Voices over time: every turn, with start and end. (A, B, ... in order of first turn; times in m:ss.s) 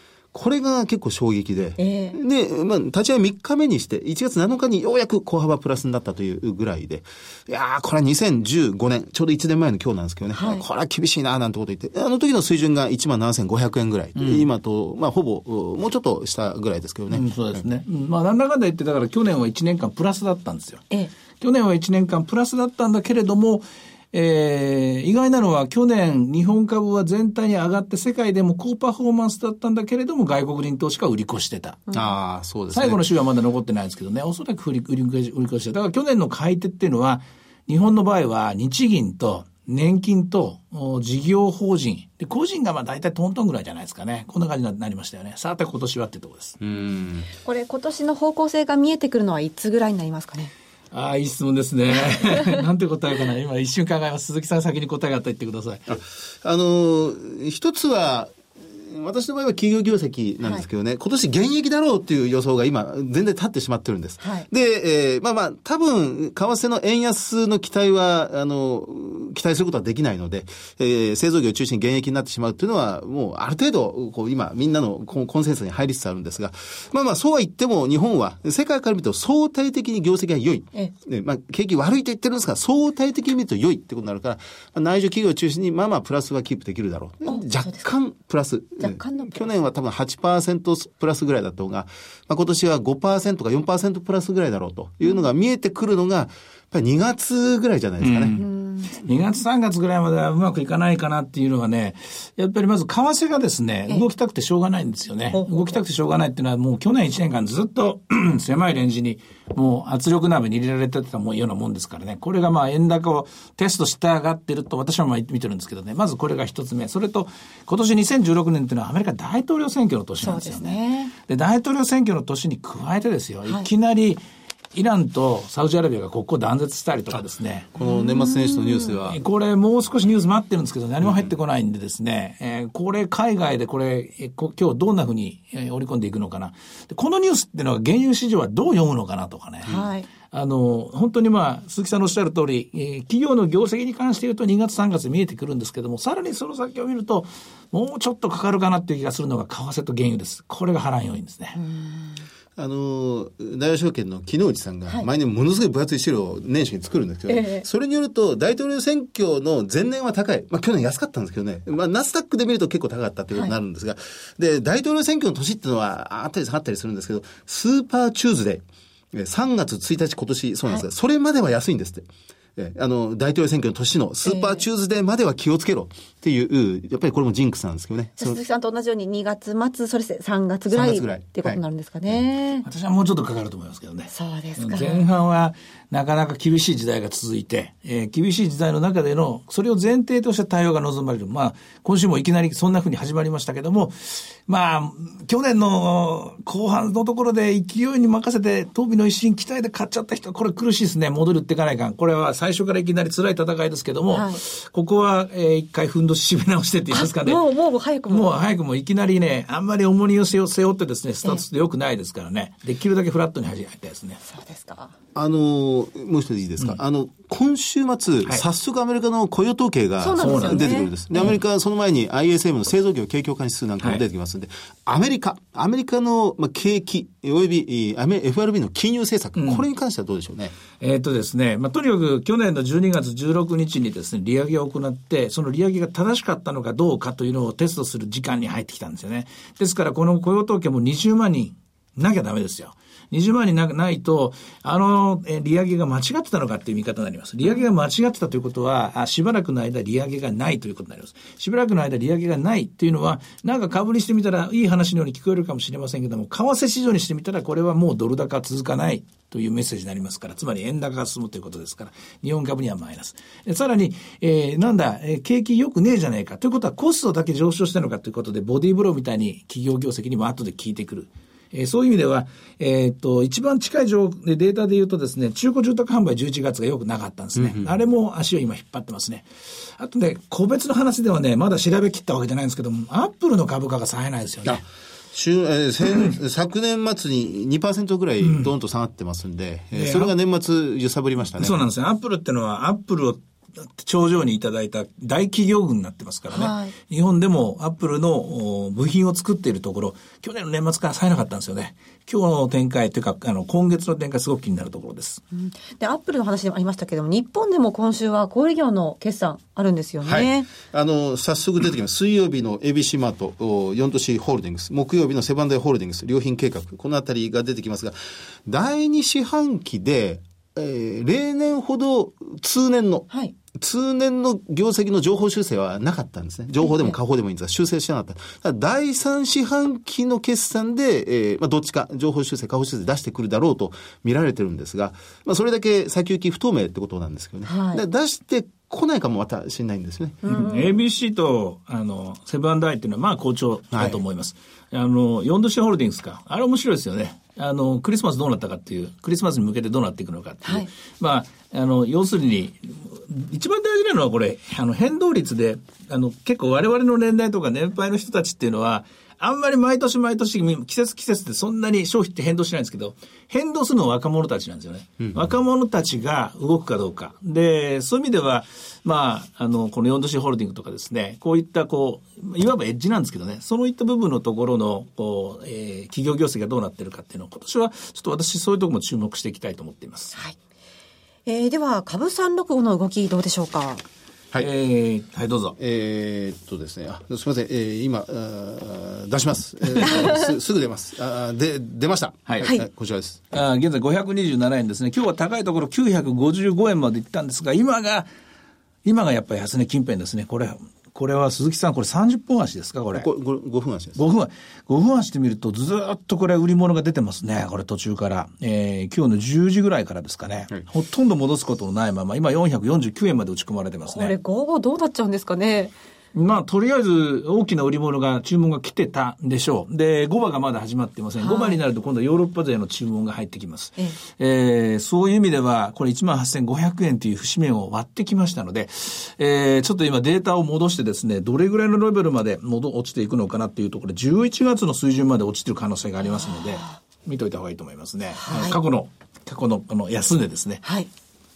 0:00.3-0:17.7 A
0:01.8-0:02.2 B
0:10.3-0:10.6 B
0:14.2-0:14.4 C
0:17.1-0:31.8 C
0:31.9-0:33.0 A
0:32.7-0:46.6 C
0:46.6-0:47.3 A
0:47.3-0:50.5 B
0:50.9-0:55.8 C
0:55.9-1:38.4 A
1:04.2-1:04.5 B
1:27.3-1:27.9 B
1:28.8-1:29.5 B
1:38.0-2:04.2 C
1:38.4-1:39.0 B
1:45.3-1:45.6 B
2:00.2-2:01.1 B
2:04.7-2:07.7 C
2:07.8-2:09.2 A
2:07.8-2:08.9 B
2:09.1-2:31.6 C
2:19.7-2:20.1 B
2:31.6-2:32.2 B
2:32.6-2:48.6 A
2:37.3-2:37.7 B
2:49.1-2:58.4 A
2:54.2-2:54.6 B
2:58.2-3:02.7 B
3:00.7-3:01.6 A
3:02.6-3:27.4 C
3:04.1-3:05.1 B
3:24.1-3:24.4 B
3:26.9-3:28.3 B
3:28.1-3:34.2 C
3:34.3-3:34.9 B
3:35.2-3:50.6 A
3:40.0-3:41.3 B
3:40.2-3:41.4 C
3:49.4-3:49.6 C
3:50.8-4:44.6 C
4:37.4-4:37.7 A
4:44.4-4:51.6 A
4:48.2-4:48.5 C
4:49.7-4:50.1 C
4:51.4-5:05.2 C
4:56.3-4:56.8 B
5:05.3-5:10.5 B
5:10.0-5:18.0 A
5:18.5-5:40.4 A
5:26.6-5:27.0 B
5:37.5-5:37.8 B
5:40.2-5:40.7 B
5:40.3-6:20.1 C
5:43.7-5:44.0 A
6:21.3-6:23.8 B
6:24.4-6:25.6 C
6:25.6-6:33.4 A
6:29.9-6:30.3 B
6:33.3-6:38.1 C
6:38.8-6:43.1 C
6:42.9-6:44.0 A
6:44.0-6:54.2 C
6:53.9-6:55.7 B
6:56.1-7:20.6 C
7:01.2-7:01.6 B
7:16.2-7:16.7 B
7:18.2-7:18.6 B
7:20.6-7:20.9 B